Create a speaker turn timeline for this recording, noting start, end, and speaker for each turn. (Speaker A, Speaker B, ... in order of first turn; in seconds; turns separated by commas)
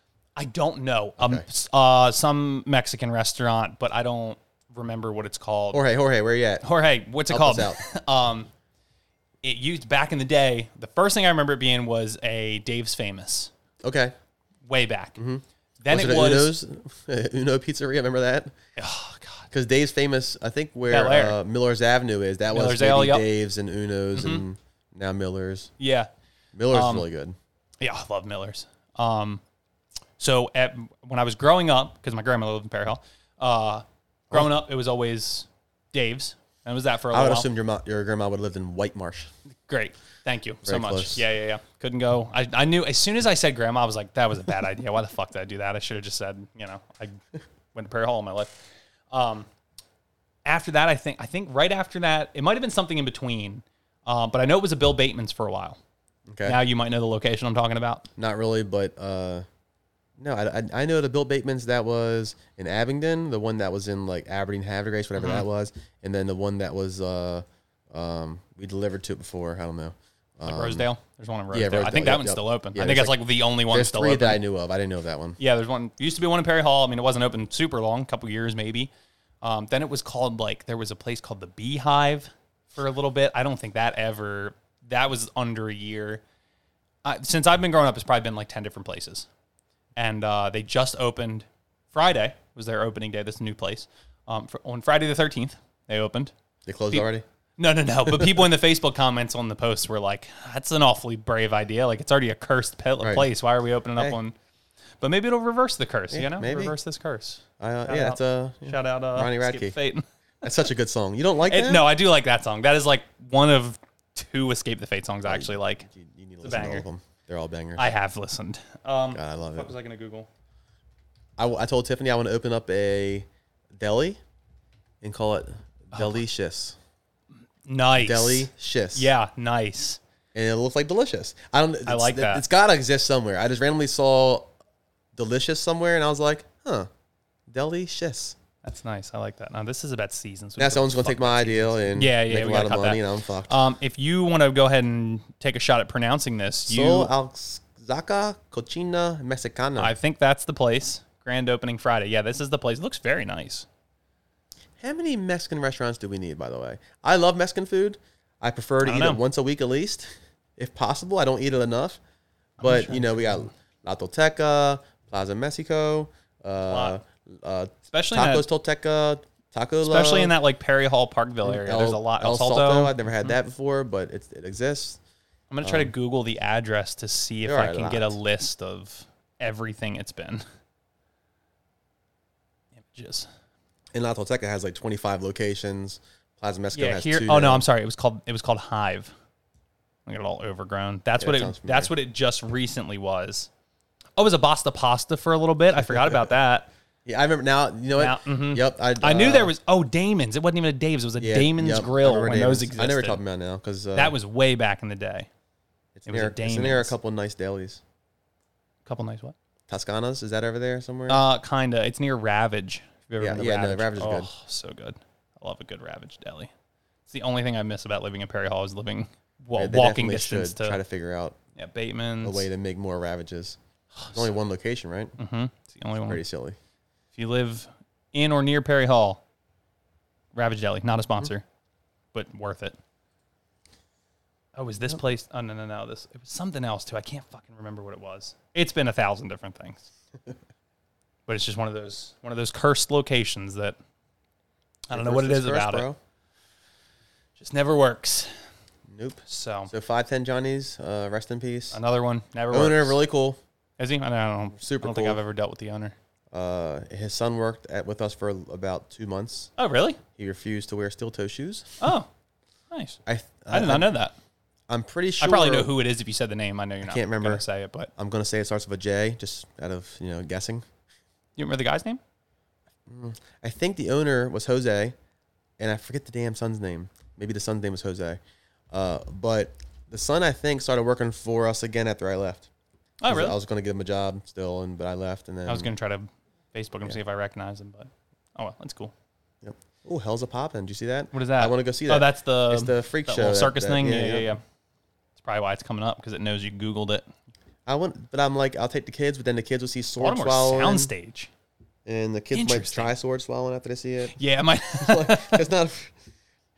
Speaker A: 0.3-5.8, Speaker B: 1.2-1.4, Speaker B: 5.7-6.6, Speaker A: 6.6-8.5, Speaker B: 7.3-7.8, Speaker A: 9.4-13.5, Speaker B: 13.8-14.1, Speaker A: 14.7-15.2, Speaker B: 15.2-18.5, Speaker A: 15.8-16.5, Speaker A: 18.8-19.5, Speaker B: 19.5-25.7, Speaker A: 20.9-21.4, Speaker A: 22.5-23.2, Speaker A: 24.1-24.4, Speaker A: 25.8-26.1, Speaker B: 26.5-27.3, Speaker A: 26.7-27.1, Speaker A: 27.8-29.4, Speaker A: 30.2-37.5, Speaker B: 37.1-39.3, Speaker A: 39.6-47.2, Speaker B: 40.6-41.2, Speaker A: 47.7-48.6, Speaker A: 49.1-49.5, Speaker A: 50.5-55.8, Speaker B: 56.3-56.6, Speaker A: 56.4-58.1, Speaker B: 58.2-59.5, Speaker B: 60.2-70.9, Speaker A: 65.2-65.4, Speaker A: 70.4-74.4, Speaker B: 71.5-75.4, Speaker A: 75.4-78.9, Speaker A: 79.4-86.2, Speaker A: 87.0-89.3, Speaker A: 90.0-96.3, Speaker B: 96.7-97.2, Speaker A: 97.6-104.3, Speaker B: 98.0-98.4, Speaker B: 103.0-103.3, Speaker A: 105.0-110.0, Speaker B: 106.1-106.7, Speaker B: 107.6-109.8, Speaker B: 110.4-111.9, Speaker A: 111.5-115.8, Speaker B: 115.2-117.9, Speaker A: 116.4-116.8, Speaker A: 117.8-120.3, Speaker B: 119.1-119.7, Speaker B: 121.4-124.2, Speaker B: 125.0-126.8, Speaker A: 125.9-126.2, Speaker A: 127.7-130.0, Speaker B: 128.0-129.1, Speaker B: 130.3-134.5, Speaker A: 131.8-132.4, Speaker B: 135.1-136.9, Speaker B: 137.5-138.3, Speaker A: 138.6-147.1, Speaker B: 140.6-143.5, Speaker B: 146.7-149.9, Speaker A: 149.8-153.7, Speaker B: 154.8-162.0, Speaker A: 158.8-159.2, Speaker A: 162.6-163.5, Speaker B: 162.6-170.3, Speaker A: 166.7-167.0, Speaker A: 167.9-168.4, Speaker A: 169.8-173.3, Speaker B: 171.4-175.0, Speaker A: 175.5-180.4, Speaker B: 175.6-175.9, Speaker B: 177.4-178.2, Speaker A: 182.8-183.3, Speaker B: 183.9-187.7, Speaker A: 186.7-189.1, Speaker A: 190.1-193.5, Speaker B: 191.2-191.9, Speaker A: 194.2-196.7, Speaker B: 195.8-196.3, Speaker B: 197.1-199.5, Speaker A: 198.0-203.2, Speaker B: 201.2-204.2, Speaker A: 203.9-205.3, Speaker B: 205.9-207.8, Speaker A: 206.1-206.9, Speaker A: 208.8-209.3, Speaker B: 209.7-211.2, Speaker A: 211.1-216.5, Speaker B: 213.2-214.3, Speaker A: 217.1-220.8, Speaker B: 219.6-221.4, Speaker A: 221.6-222.4, Speaker B: 222.2-223.6, Speaker A: 223.9-224.3, Speaker B: 224.1-225.1, Speaker A: 225.2-226.2, Speaker B: 226.0-226.6, Speaker A: 227.2-229.2, Speaker A: 230.3-231.4, Speaker A: 232.1-232.8, Speaker A: 234.5-239.9, Speaker A: 241.3-243.8, Speaker A: 244.9-245.9, Speaker B: 244.9-246.0, Speaker A: 247.4-248.3, Speaker B: 248.9-251.8, Speaker A: 249.3-249.7, Speaker A: 251.7-253.0, Speaker B: 252.5-253.4, Speaker A: 253.8-255.9, Speaker B: 254.5-255.2, Speaker B: 256.3-259.5, Speaker A: 259.6-260.0, Speaker B: 260.2-261.7, Speaker A: 261.8-262.1, Speaker A: 262.7-263.0, Speaker B: 263.1-263.9, Speaker A: 263.5-264.1, Speaker B: 264.7-265.7, Speaker A: 265.2-267.9, Speaker B: 266.8-267.4, Speaker B: 267.9-270.6, Speaker A: 271.4-272.0, Speaker B: 272.9-274.9, Speaker B: 275.6-278.2, Speaker B: 278.7-282.5, Speaker A: 283.0-283.4, Speaker B: 283.1-285.7, Speaker A: 285.5-288.9, Speaker B: 289.4-294.3, Speaker A: 291.1-294.4, Speaker A: 295.2-297.1, Speaker B: 297.6-300.9, Speaker A: 300.0-301.3, Speaker B: 301.9-304.1, Speaker A: 302.3-302.9, Speaker A: 304.1-305.4, Speaker B: 304.8-305.9